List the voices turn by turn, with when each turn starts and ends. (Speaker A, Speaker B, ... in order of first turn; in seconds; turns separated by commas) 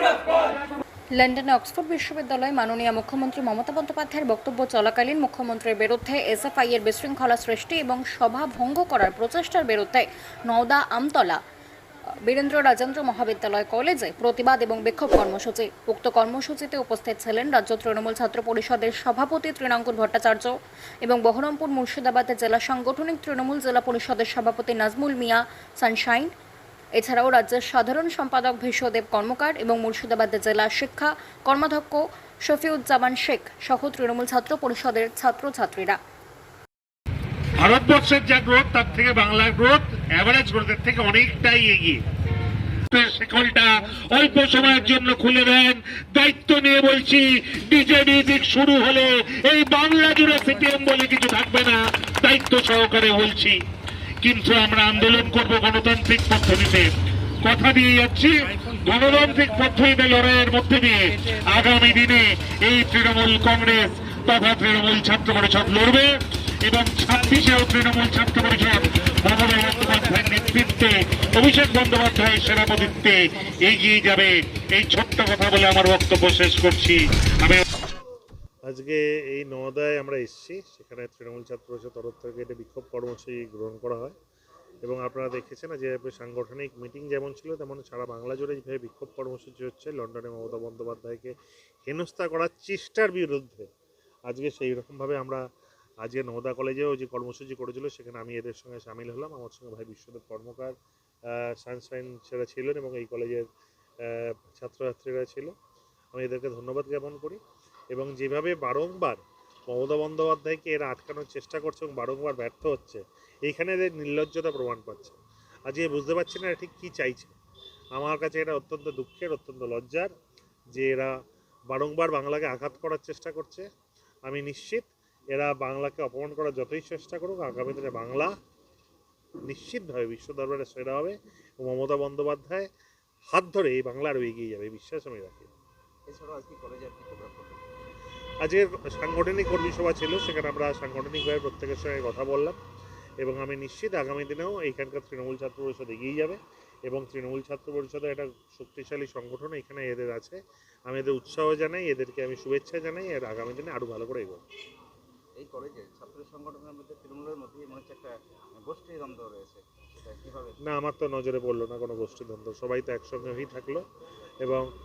Speaker A: 1.1-11.4, Speaker A: 12.2-20.5, Speaker A: 21.0-26.3, Speaker A: 27.0-36.0, Speaker B: 37.6-38.9, Speaker C: 38.0-42.0, Speaker B: 42.9-53.6, Speaker B: 54.2-56.9, Speaker B: 57.4-66.1, Speaker B: 66.6-77.6, Speaker C: 78.7-84.1, Speaker C: 84.8-91.3, Speaker C: 91.9-93.7, Speaker C: 94.3-95.4, Speaker C: 96.0-100.7, Speaker C: 101.3-103.4, Speaker C: 104.0-105.5, Speaker C: 106.1-107.4, Speaker C: 107.9-117.3, Speaker C: 118.0-120.1, Speaker C: 120.7-121.1, Speaker C: 121.7-123.7, Speaker C: 124.2-128.3, Speaker C: 129.4-132.7, Speaker C: 133.3-135.5, Speaker D: 136.1-137.6, Speaker C: 138.4-142.6, Speaker C: 143.2-154.4, Speaker D: 155.4-160.6, Speaker C: 160.6-163.8, Speaker C: 164.4-164.7